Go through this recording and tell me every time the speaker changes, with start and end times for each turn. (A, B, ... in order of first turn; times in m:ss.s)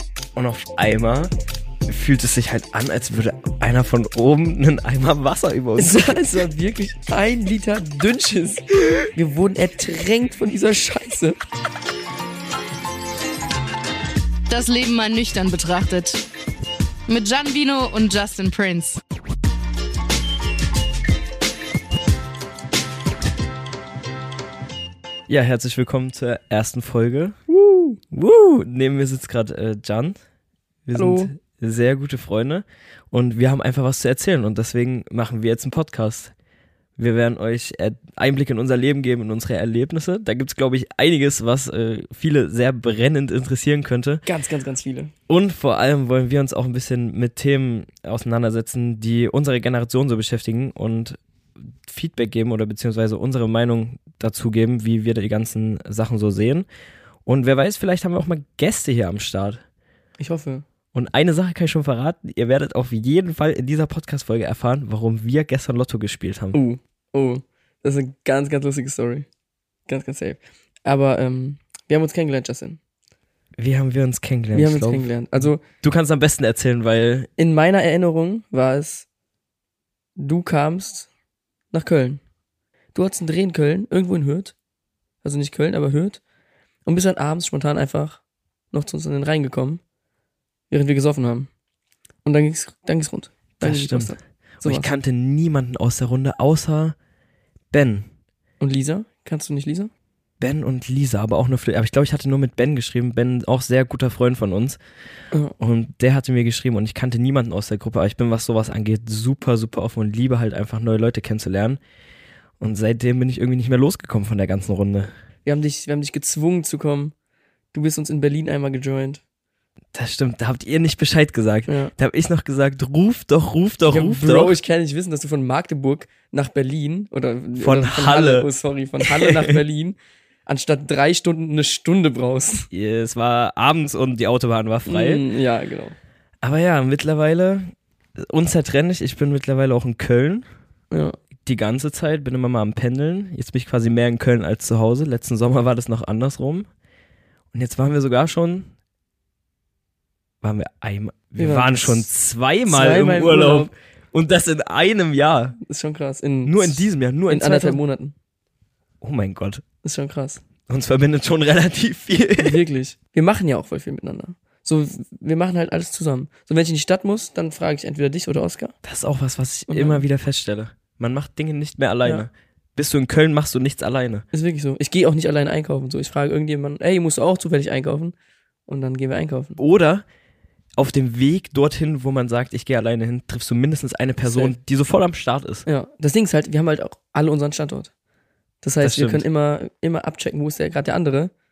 0:00.3-0:01.3 A
0:01.9-0:06.2 A
0:05.8-0:11.4 B
0:14.5-0:16.2 C
0:17.1-0:19.0 C
0:25.3-0:27.4 A
0:27.5-0:28.0 B
0:28.1-0:30.2 A
0:30.8-0:36.3 A
0:30.9-0:31.3 B
0:37.0-0:44.2 A
0:44.2-0:45.1 B
0:45.3-0:51.2 A
0:51.8-0:56.6 A
0:57.2-0:59.6 A
1:00.2-1:00.6 B
1:00.9-1:06.6 A
1:06.5-1:09.2 B
1:09.9-1:12.8 B
1:13.6-1:17.3 A
1:14.5-1:15.6 B
1:17.4-1:19.0 B
1:20.2-1:21.1 B
1:21.7-1:22.2 B
1:22.9-1:24.5 B
1:25.2-1:26.2 B
1:26.8-1:28.2 B
1:28.7-1:29.8 B
1:30.7-1:31.5 B
1:32.2-1:34.9 B
1:33.6-1:36.9 A
1:37.7-1:38.1 A
1:38.6-1:39.9 B
1:40.4-1:44.8 A
1:45.6-1:51.8 A
1:52.6-1:55.1 A
1:55.4-1:57.1 B
1:57.7-1:59.2 B
1:59.9-2:04.6 A
2:01.7-2:01.9 B
2:03.9-2:12.7 B
2:07.6-2:08.5 A
2:09.0-2:09.6 A
2:12.7-2:15.2 A
2:14.8-2:16.0 B
2:16.4-2:20.4 A
2:20.9-2:21.2 B
2:21.4-2:26.7 A
2:27.5-2:28.7 A
2:30.4-2:35.6 A
2:31.4-2:32.1 B
2:32.7-2:33.7 B
2:35.6-2:38.1 B
2:36.4-2:37.8 A
2:39.0-2:39.6 A
2:39.8-2:40.4 B
2:40.7-2:42.6 A
2:42.4-2:48.7 B
2:48.8-2:54.2 A
2:49.7-2:50.0 B
2:54.3-2:58.1 B
2:58.7-2:59.6 B
2:59.6-3:00.0 A
3:00.8-3:05.6 A
3:04.2-3:04.5 B
3:05.6-3:07.9 B
3:08.6-3:11.3 B
3:08.8-3:09.2 A